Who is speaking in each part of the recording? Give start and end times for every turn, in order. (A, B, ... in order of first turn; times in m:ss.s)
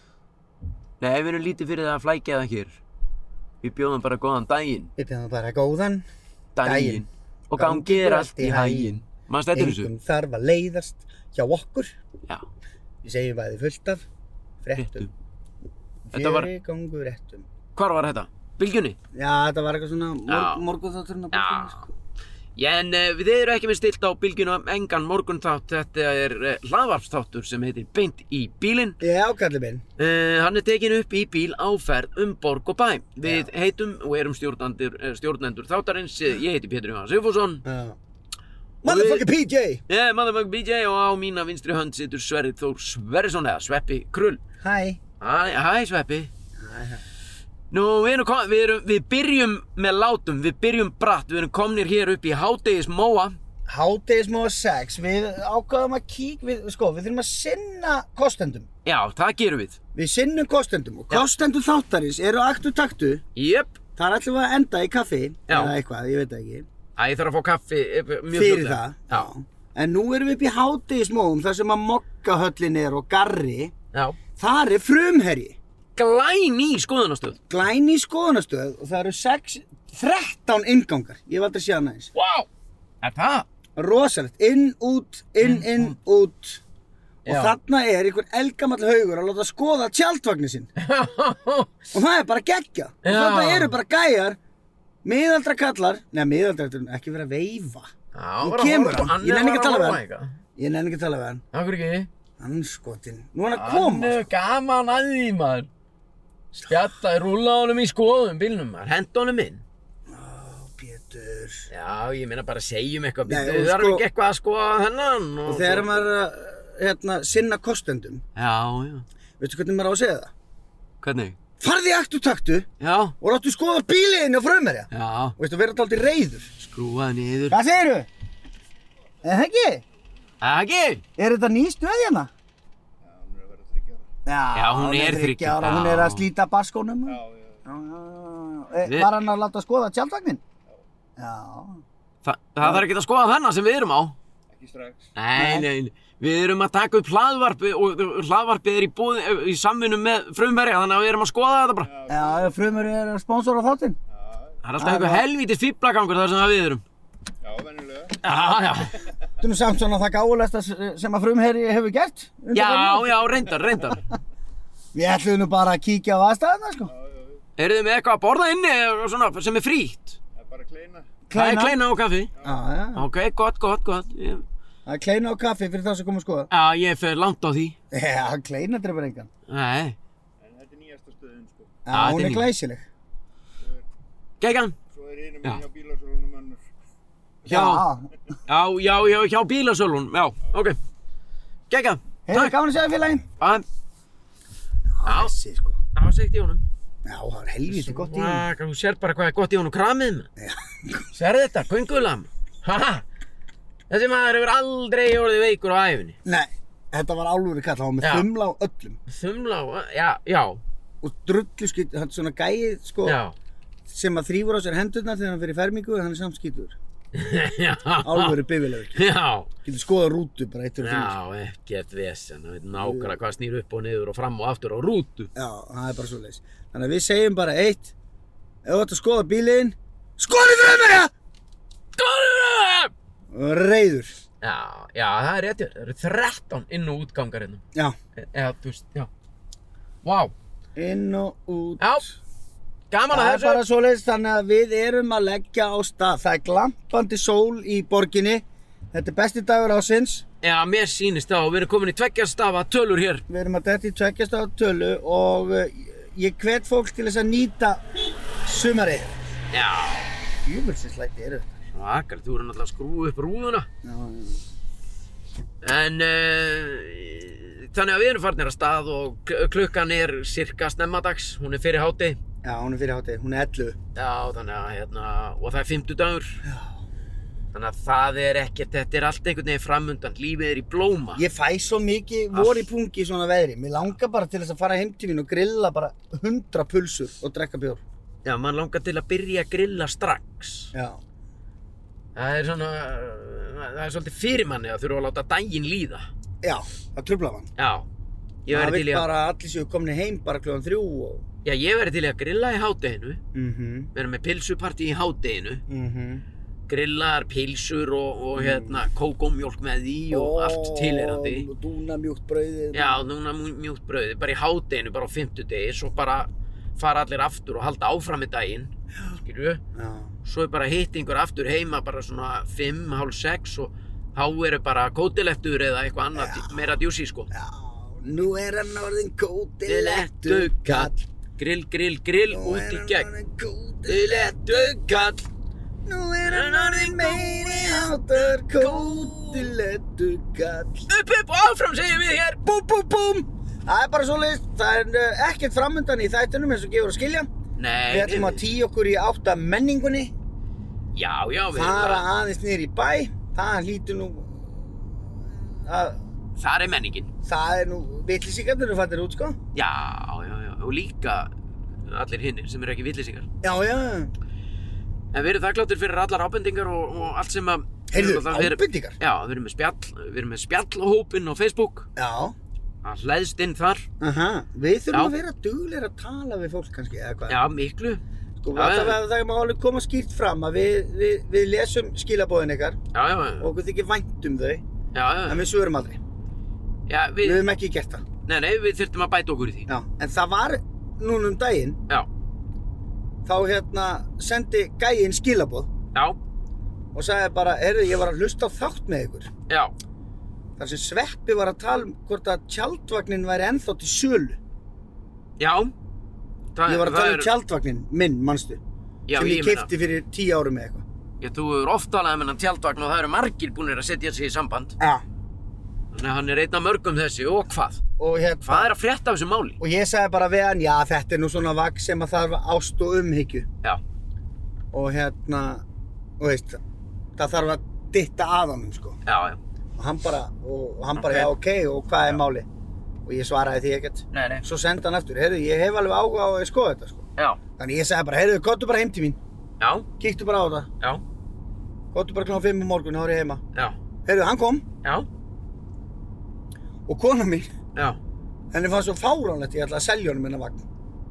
0:01.0-0:02.8 A
0:03.6-0:04.9 A
0:05.0-0:06.0 B
0:06.5-0:09.9 A
0:06.6-0:07.0 B
0:07.6-0:09.0 B
0:09.5-0:12.0 B
0:13.0-0:14.0 B
0:14.6-0:15.1 B
0:14.8-0:15.1 A
0:16.1-0:17.5 B
0:16.1-0:16.5 A
0:17.8-0:19.0 A
0:19.1-0:21.9 B
0:20.3-0:20.6 A
0:21.3-0:21.9 A
0:22.6-0:29.0 A
0:29.0-0:29.8 B
0:30.0-0:37.6 A
0:33.2-0:33.5 B
0:37.6-0:38.0 B
0:38.8-0:39.8 B
0:38.8-0:39.3 A
0:39.9-0:44.4 A
0:44.6-0:45.0 B
0:45.2-0:46.3 A
0:46.6-0:47.0 B
0:47.7-0:53.4 A
0:53.7-0:58.7 B
0:58.8-0:59.8 A
1:00.0-1:03.2 B
1:03.4-1:03.8 A
1:04.0-1:06.7 B
1:05.5-1:05.8 A
1:07.0-1:09.3 A
1:08.3-1:13.7 B
1:13.9-1:14.2 A
1:14.4-1:15.6 B
1:16.0-1:17.4 A
1:17.5-1:22.1 B
1:22.2-1:22.5 A
1:23.0-1:23.5 A
1:23.8-1:26.6 B
1:25.4-1:26.0 A
1:27.2-1:27.6 A
1:27.2-1:30.7 B
1:30.8-1:31.9 A
1:31.9-1:34.4 B
1:33.0-1:33.8 A
1:35.0-1:40.0 B
1:38.1-1:40.4 A
1:40.6-1:41.4 B
1:41.5-1:42.1 A
1:42.4-1:44.2 B
1:43.5-1:45.7 A
1:46.5-1:49.6 A
1:50.1-1:51.7 B
1:51.7-1:56.0 A
1:53.2-1:54.0 B
1:55.5-1:58.2 B
1:58.4-1:59.1 A
1:59.4-2:00.3 B
2:01.0-2:01.4 A
2:01.6-2:02.7 B
2:02.8-2:03.2 A
2:03.2-2:06.5 B
2:04.9-2:05.4 A
2:06.6-2:07.6 A
2:07.5-2:08.1 B
2:09.2-2:09.8 B
2:10.4-2:11.0 A
2:11.2-2:12.3 B
2:13.0-2:14.1 C
2:14.2-2:20.4 B
2:14.5-2:16.3 A
2:17.1-2:17.7 C
2:18.8-2:19.1 A
2:21.2-2:21.8 B
2:22.2-2:24.2 A
2:24.5-2:25.1 C
2:25.2-2:31.9 A
2:25.4-2:25.7 B
2:31.8-2:32.6 C
2:32.1-2:34.0 B
2:34.1-2:34.6 C
2:34.6-2:36.8 A
2:34.8-2:35.2 B
2:37.4-2:38.2 C
2:38.2-2:39.0 A
2:39.4-2:43.9 B
2:42.5-2:44.0 A
2:44.9-2:46.9 B
2:46.8-2:47.4 C
2:47.6-2:50.2 A
2:50.3-2:51.1 C
2:51.3-2:51.8 B
2:51.3-2:52.3 A
2:52.4-2:52.6 C
2:52.4-2:53.1 B
2:53.0-2:54.4 A
2:54.8-2:56.5 B
2:56.5-2:57.8 A
2:57.9-2:59.3 B
2:59.5-3:00.0 A
3:00.4-3:01.8 C
3:01.8-3:02.8 B
3:01.9-3:02.5 A
3:03.6-3:03.8 C
3:04.4-3:04.8 A
3:04.9-3:06.6 C
3:07.4-3:08.1 B
3:07.5-3:07.8 A
3:08.5-3:10.8 A
3:11.7-3:12.5 A
3:12.2-3:13.2 B
3:13.4-3:13.6 A
3:14.9-3:15.8 B
3:15.0-3:15.3 A
3:15.9-3:16.6 A
3:17.0-3:18.4 B
3:17.7-3:20.3 A
3:20.4-3:21.1 B
3:21.1-3:23.0 A
3:23.9-3:26.2 A
3:26.2-3:29.0 B
3:28.0-3:28.3 A
3:29.1-3:30.6 A
3:31.0-3:33.2 B
3:33.0-3:33.3 A
3:33.9-3:36.8 B
3:37.1-3:38.4 A
3:38.0-3:39.0 B
3:38.9-3:39.5 A
3:39.6-3:41.2 B
3:40.8-3:45.3 A
3:42.8-3:43.2 B
3:45.4-3:47.9 B
3:48.6-3:51.1 B
3:52.0-3:52.9 A
3:53.3-3:54.2 B
3:54.4-3:57.6 A
3:58.2-3:59.1 A
4:00.0-4:00.3 A
4:00.8-4:02.1 B
4:02.9-4:03.6 A
4:03.1-4:10.2 B
4:10.4-4:13.2 A
4:13.3-4:17.9 B
4:18.4-4:19.2 B
4:19.5-4:20.1 A
4:20.4-4:21.6 B
4:21.7-4:23.7 A
4:23.8-4:24.4 B
4:25.6-4:32.2 A
4:32.4-4:33.8 B
4:33.9-4:36.4 A
4:36.4-4:36.8 B
4:37.5-4:41.2 A
4:41.2-4:47.8 B
4:42.3-4:42.6 A
4:48.2-4:50.7 A
4:50.7-4:51.0 B
4:52.1-4:56.1 A
4:56.4-4:57.5 B
4:57.6-4:57.9 A
4:58.4-4:59.1 A
4:58.5-5:01.2 B
5:01.4-5:03.2 A
5:03.3-5:03.9 B
5:03.9-5:05.6 A
5:05.7-5:06.2 B
5:06.7-5:11.5 A
5:08.3-5:08.8 B
5:10.1-5:13.0 B
5:12.7-5:19.6 A
5:19.7-5:20.1 B
5:20.2-5:27.3 A
5:26.2-5:26.6 B
5:27.3-5:31.0 B
5:29.6-5:33.1 A
5:32.3-5:34.8 B
5:33.9-5:35.2 A
5:35.9-5:40.9 B
5:36.2-5:39.5 A
5:40.9-5:42.4 A
5:42.4-5:47.3 B
5:47.6-5:48.4 A
5:47.9-5:50.1 B
5:50.9-5:52.0 A
5:51.5-5:56.0 B
5:56.4-5:57.1 A
5:57.2-5:59.4 B
5:59.5-6:01.3 A
6:01.9-6:03.3 A
6:03.4-6:04.1 B
6:05.1-6:11.9 A
6:07.9-6:09.0 B
6:12.0-6:12.3 B
6:12.8-6:13.9 A
6:14.0-6:17.4 B
6:17.3-6:18.0 A
6:18.4-6:22.8 B
6:18.6-6:19.0 A
6:22.9-6:23.5 A
6:23.4-6:24.6 B
6:24.9-6:25.4 A
6:25.3-6:26.0 B
6:26.9-6:27.5 A
6:27.2-6:28.0 B
6:28.2-6:29.7 A
6:29.7-6:31.8 B
6:33.2-6:35.7 B
6:36.9-6:39.3 B
6:40.6-6:44.4 B
6:45.4-6:45.7 A
6:46.6-6:47.3 A
6:46.6-6:48.6 B
6:49.1-6:49.7 A
6:49.1-6:50.8 B
6:51.2-6:54.8 A
6:55.9-6:57.8 A
6:58.0-6:58.7 B
6:58.4-6:59.6 A
6:59.6-7:03.5 B
7:04.7-7:05.6 B
7:06.2-7:06.6 B
7:07.2-7:09.0 B
7:09.1-7:09.4 A
7:09.8-7:12.5 B
7:10.9-7:11.3 A
7:13.0-7:19.2 B
7:14.1-7:14.4 A
7:19.6-7:19.9 A
7:20.0-7:20.7 B
7:21.9-7:23.4 B
7:24.1-7:24.6 B
7:26.9-7:27.5 B
7:28.5-7:30.6 B